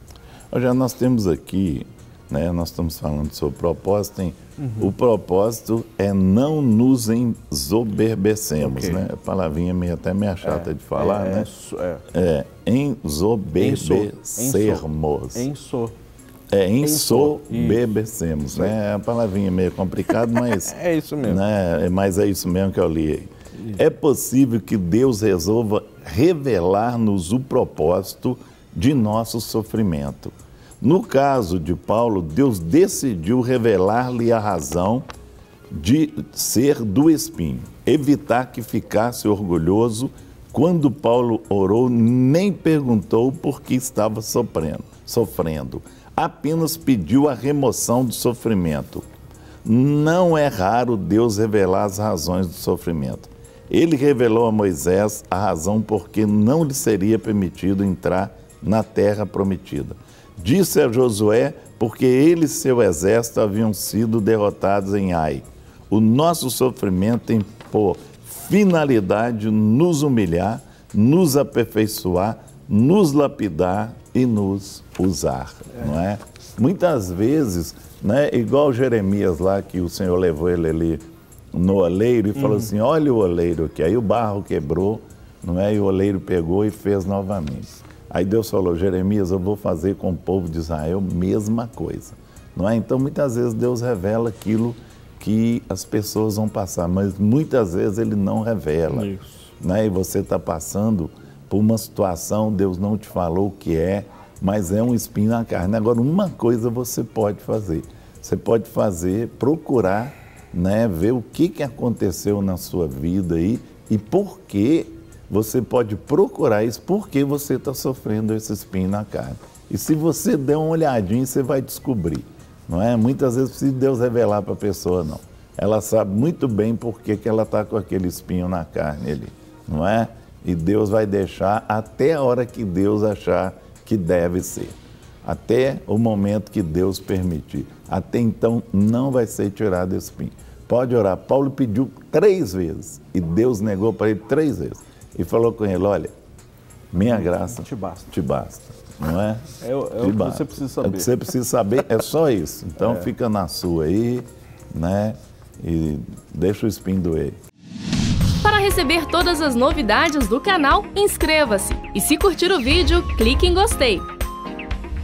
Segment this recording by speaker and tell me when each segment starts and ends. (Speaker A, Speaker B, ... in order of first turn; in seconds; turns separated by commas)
Speaker A: 0.5-11.5, Speaker B: 4.6-4.9, Speaker B: 8.6-9.0, Speaker B: 10.4-12.0, Speaker A: 12.1-15.5, Speaker B: 13.6-15.9, Speaker A: 16.5-35.1, Speaker B: 16.8-18.0, Speaker B: 20.1-21.4, Speaker A: 35.7-49.0, Speaker A: 49.6-146.1, Speaker B: 82.3-82.7, Speaker B: 98.9-99.3, Speaker A: 146.9-157.4, Speaker B: 147.0-148.1, Speaker B: 149.6-151.2, Speaker C: 158.4-164.1